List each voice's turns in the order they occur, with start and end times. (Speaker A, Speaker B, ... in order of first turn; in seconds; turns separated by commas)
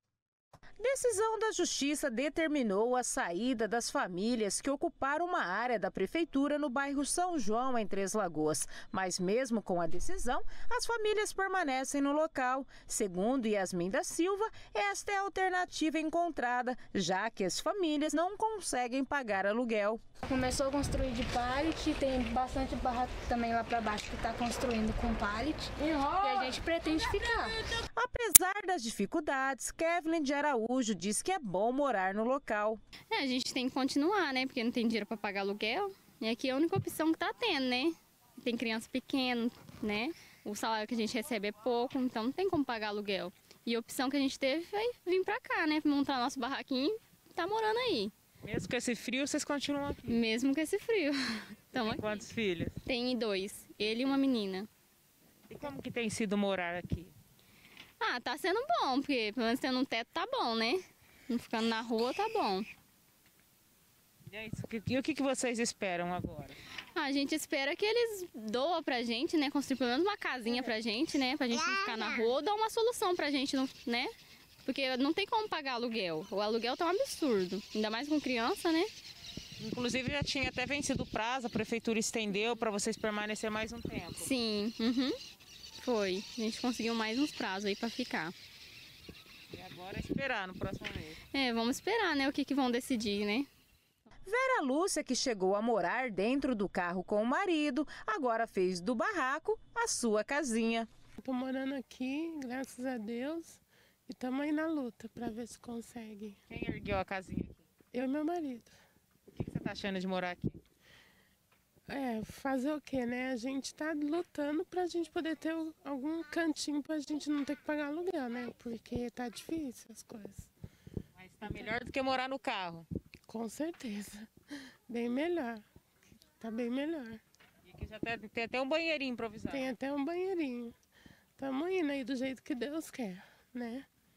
Speaker A: 0.8-20.0, Speaker B: 20.2-27.6, Speaker A: 27.9-32.8, Speaker C: 33.1-48.1, Speaker A: 48.4-50.2, Speaker C: 50.1-52.3, Speaker A: 51.8-52.8, Speaker C: 52.8-54.7, Speaker A: 53.8-54.2, Speaker A: 55.5-57.1, Speaker C: 58.0-62.7, Speaker A: 64.3-66.6, Speaker C: 66.9-74.1, Speaker C: 74.6-78.9, Speaker A: 79.6-84.3, Speaker C: 84.1-85.2, Speaker C: 85.8-88.3, Speaker A: 89.5-91.2, Speaker C: 91.3-93.5, Speaker A: 94.2-100.9, Speaker D: 101.2-106.4, Speaker A: 106.5-107.6, Speaker D: 107.9-108.7, Speaker A: 109.3-110.5, Speaker D: 111.9-120.5, Speaker A: 121.2-122.9, Speaker D: 123.3-124.3, Speaker D: 124.9-125.6, Speaker D: 126.4-127.2, Speaker A: 127.7-129.7, Speaker D: 129.5-130.7, Speaker D: 131.4-133.9